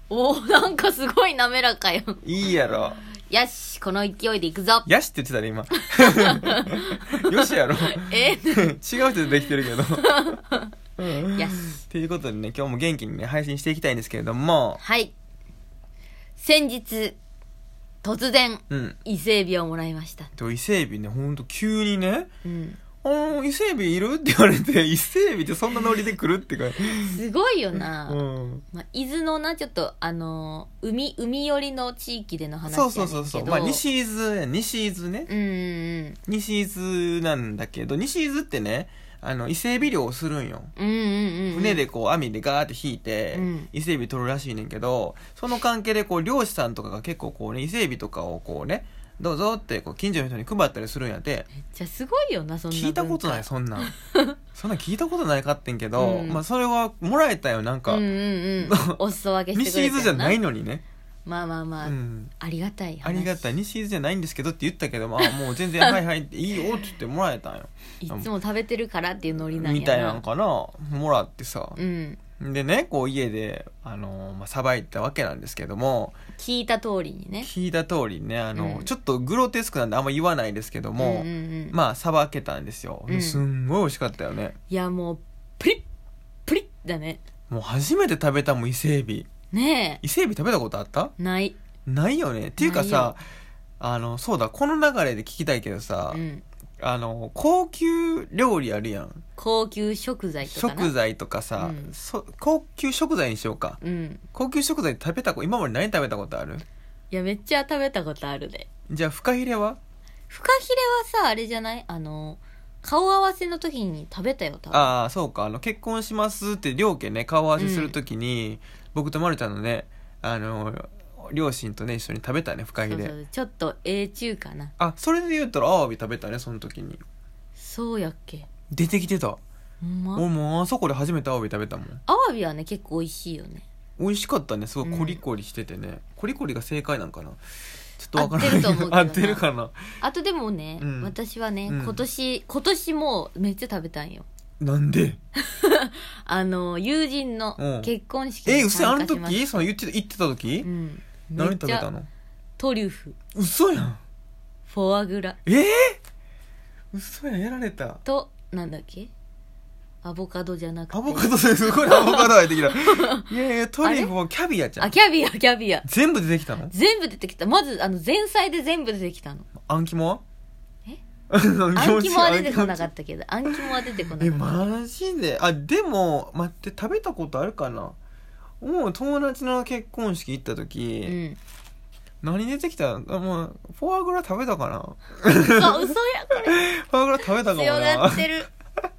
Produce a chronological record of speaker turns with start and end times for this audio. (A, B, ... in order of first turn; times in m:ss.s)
0:00.1-0:02.2 A
0:02.2-0:03.0 B
0:03.2-0:04.9 A
0:04.9-0:10.2 B
0:05.8-0:07.3 A
0:07.9-0:08.7 A
0:09.7-0:11.8 A
0:11.0-0:14.8 B
0:14.8-0:15.1 A
0:16.4-0:17.2 A
0:18.0-0:20.3 A
0:18.7-0:19.0 B
0:20.4-0:22.3 B
0:22.4-0:22.8 A
0:23.0-0:27.2 B
0:26.9-0:28.2 A
0:28.1-0:28.6 B
0:28.7-0:33.8 A
0:32.7-0:35.3 B
0:35.3-0:36.2 A
0:36.3-0:40.7 B
0:40.8-0:41.8 A
0:41.5-0:51.5 B
0:43.3-0:43.7 A
0:51.6-0:54.4 A
0:52.7-0:53.9 B
0:54.5-0:58.0 B
0:56.0-0:56.4 A
0:57.9-1:00.4 A
0:58.6-0:59.0 B
0:59.5-1:00.8 B
1:01.3-1:03.5 A
1:01.8-1:02.3 B
1:03.0-1:08.3 B
1:08.0-1:10.2 A
1:09.6-1:11.8 B
1:11.8-1:12.2 A
1:12.4-1:16.2 B
1:16.4-1:17.5 A
1:17.4-1:24.6 B
1:18.6-1:18.9 A
1:21.0-1:21.8 A
1:23.1-1:23.4 A
1:24.7-1:25.8 A
1:26.5-1:27.2 A
1:27.5-1:29.3 B
1:29.5-1:30.0 A
1:30.0-1:31.1 B
1:31.2-1:31.6 A
1:31.9-1:33.2 B
1:32.6-1:33.1 A
1:33.8-1:36.2 B
1:36.1-1:36.4 A
1:36.8-1:39.2 B
1:39.4-1:40.9 A
1:40.4-1:43.8 B
1:41.6-1:41.9 A
1:43.8-1:44.2 A
1:44.3-1:46.6 B
1:47.1-1:48.7 A
1:48.9-1:49.8 B
1:50.3-1:54.9 A
1:54.7-2:03.2 B
1:57.6-1:58.0 A
2:02.8-2:04.7 A
2:04.8-2:07.0 B
2:07.6-2:08.5 A
2:08.7-2:09.4 B
2:09.8-2:10.2 A
2:10.2-2:12.0 B
2:12.1-2:13.6 A
2:14.0-2:17.4 B
2:14.8-2:15.2 A
2:18.0-2:20.0 B
2:18.2-2:19.4 A
2:20.0-2:24.3 A
2:20.8-2:21.1 B
2:21.7-2:22.0 B
2:24.6-2:25.2 B
2:25.4-2:29.7 A
2:27.6-2:27.9 B
2:28.4-2:30.7 B
2:30.6-2:31.9 A
2:31.4-2:32.1 B
2:32.6-2:33.2 A
2:33.4-2:34.0 B
2:34.7-2:35.4 A
2:35.4-2:36.0 B
2:36.9-2:38.0 B
2:38.0-2:39.1 A
2:40.0-2:43.3 A
2:40.9-2:44.9 B
2:43.8-2:44.1 A
2:44.8-2:45.9 A
2:45.8-2:46.7 B
2:46.7-2:49.5 A
2:49.6-2:50.2 B
2:51.3-2:52.9 B
2:51.7-2:54.7 A
2:53.5-2:58.0 B
2:58.6-3:01.2 B
3:01.0-3:01.4 A
3:02.2-3:05.9 B
3:05.5-3:06.6 A
3:06.5-3:08.4 B
3:07.2-3:08.5 A